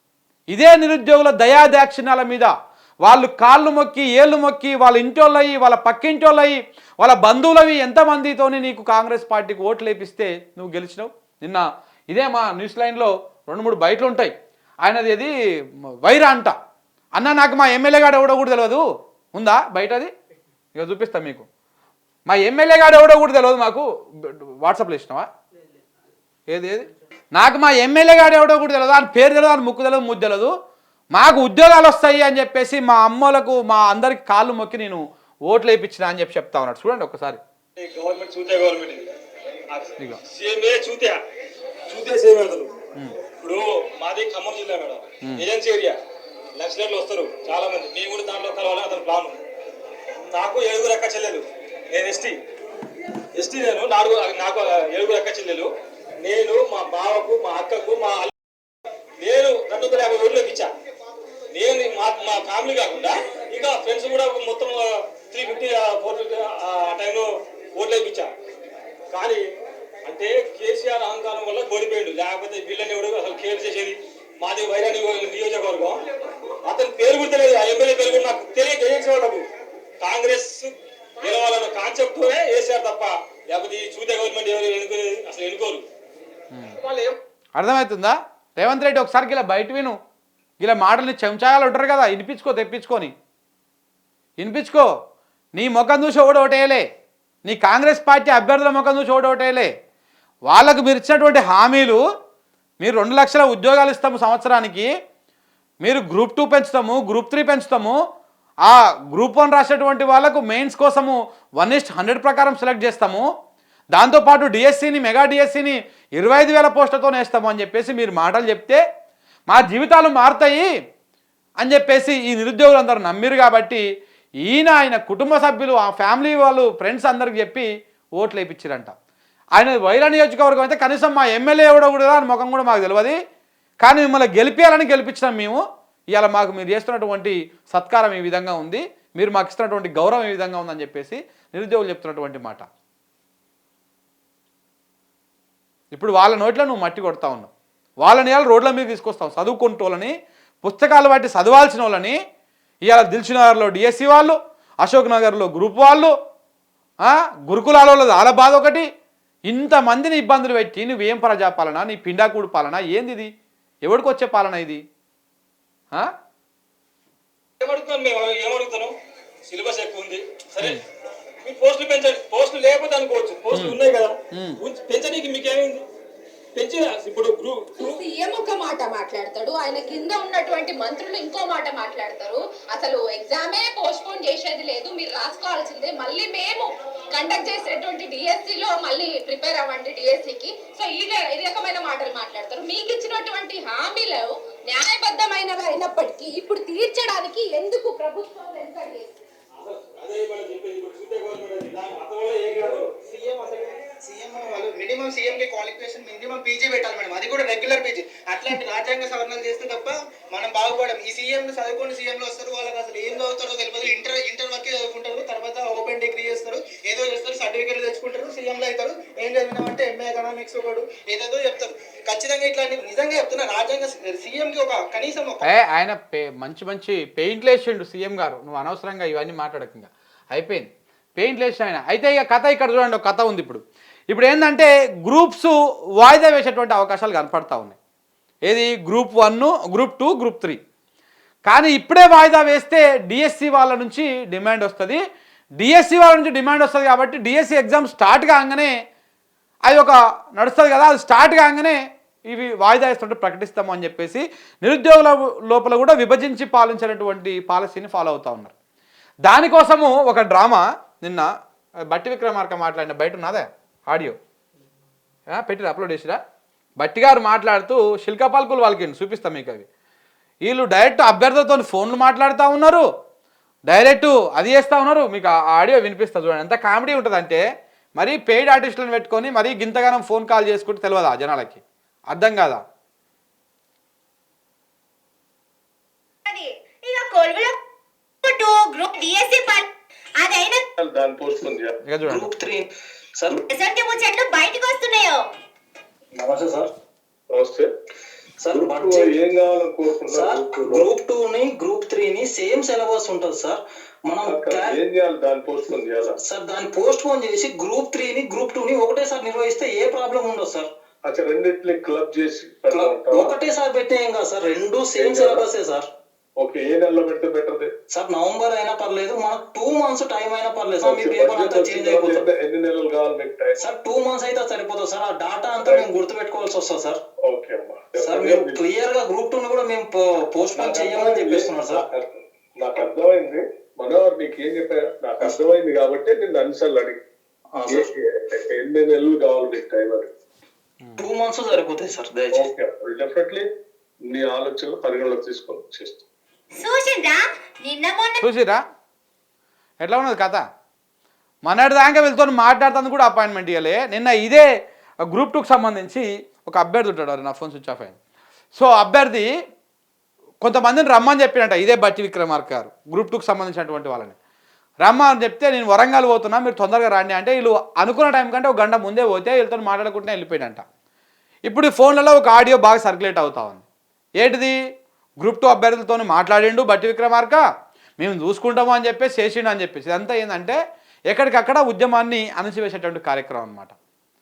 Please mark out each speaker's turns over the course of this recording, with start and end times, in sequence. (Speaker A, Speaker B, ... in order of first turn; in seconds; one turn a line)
Speaker A: 0.5-2.5
Speaker A: 3.0-15.3
Speaker A: 16.0-16.6
Speaker A: 17.2-18.8
Speaker A: 19.4-20.1
Speaker A: 20.7-21.4
Speaker A: 22.3-25.3
Speaker A: 26.5-30.5
Speaker A: 31.1-37.4
Speaker B: 37.8-39.1
Speaker B: 39.7-41.2
Speaker B: 41.9-42.7
Speaker B: 43.4-46.0
Speaker B: 46.6-49.4
Speaker B: 50.3-52.4
Speaker B: 53.3-55.7
Speaker B: 56.2-58.3
Speaker B: 59.2-60.7
Speaker B: 61.5-68.3
Speaker B: 69.1-69.4
Speaker B: 70.0-76.0
Speaker B: 76.6-79.4
Speaker B: 80.0-85.8
Speaker A: 86.5-86.8
Speaker A: 87.6-89.9
Speaker A: 90.6-93.1
Speaker A: 94.4-94.9
Speaker A: 95.5-96.8
Speaker A: 97.5-99.7
Speaker A: 100.5-102.0
Speaker A: 102.8-104.9
Speaker A: 105.8-108.0
Speaker A: 108.6-113.3
Speaker A: 113.9-118.8
Speaker A: 119.5-120.7
Speaker A: 121.6-123.8
Speaker A: 124.4-128.9
Speaker A: 129.6-133.2
Speaker A: 133.8-135.6
Speaker A: 136.1-142.6
Speaker A: 145.9-147.5
Speaker A: 148.0-152.2
Speaker A: 152.8-156.1
Speaker A: 157.0-158.9
Speaker A: 159.5-163.3
Speaker A: 163.8-164.8
Speaker B: 167.6-168.9
Speaker B: 169.5-170.8
Speaker B: 171.4-175.8
Speaker A: 173.5-173.8
Speaker A: 174.3-174.6
Speaker B: 176.6-178.0
Speaker C: 177.8-199.1
Speaker B: 199.6-203.0
Speaker D: 204.1-208.2
Speaker D: 208.7-225.1
Speaker A: 225.4-237.8
Speaker A: 238.4-240.6
Speaker A: 241.5-245.0
Speaker A: 245.6-248.7
Speaker A: 249.7-251.8
Speaker A: 252.3-258.5
Speaker A: 259.2-261.3
Speaker A: 261.9-264.2
Speaker A: 265.3-266.2
Speaker A: 266.8-269.7
Speaker A: 270.4-272.9
Speaker A: 273.7-277.4
Speaker A: 278.0-282.6
Speaker E: 286.2-287.6
Speaker E: 288.2-289.7
Speaker E: 290.2-290.6
Speaker F: 290.8-291.7
Speaker A: 291.8-292.3
Speaker G: 292.1-292.6
Speaker G: 293.2-293.4
Speaker E: 293.5-295.2
Speaker G: 296.2-296.7
Speaker F: 297.3-297.7
Speaker G: 298.4-299.1
Speaker F: 298.5-300.9
Speaker G: 300.1-304.8
Speaker F: 304.2-306.2
Speaker G: 306.2-310.7
Speaker F: 311.0-313.4
Speaker G: 312.7-315.8
Speaker F: 315.0-315.5
Speaker F: 316.4-317.7
Speaker G: 317.9-322.3
Speaker F: 320.8-323.7
Speaker G: 323.6-327.0
Speaker F: 325.6-325.9
Speaker F: 327.3-328.6
Speaker G: 328.0-331.8
Speaker F: 330.5-337.0
Speaker G: 337.6-337.9
Speaker F: 337.7-340.1
Speaker G: 341.0-342.5
Speaker F: 342.3-343.5
Speaker F: 344.1-346.0
Speaker E: 346.5-348.2
Speaker A: 348.2-348.6
Speaker A: 349.8-350.4
Speaker A: 351.4-354.5
Speaker A: 355.1-358.0
Speaker A: 358.6-359.3
Speaker A: 360.4-364.1
Speaker A: 364.8-370.6
Speaker A: 371.5-373.6
Speaker A: 374.2-374.6
Speaker A: 375.2-377.4
Speaker A: 378.0-380.6
Speaker A: 381.1-383.7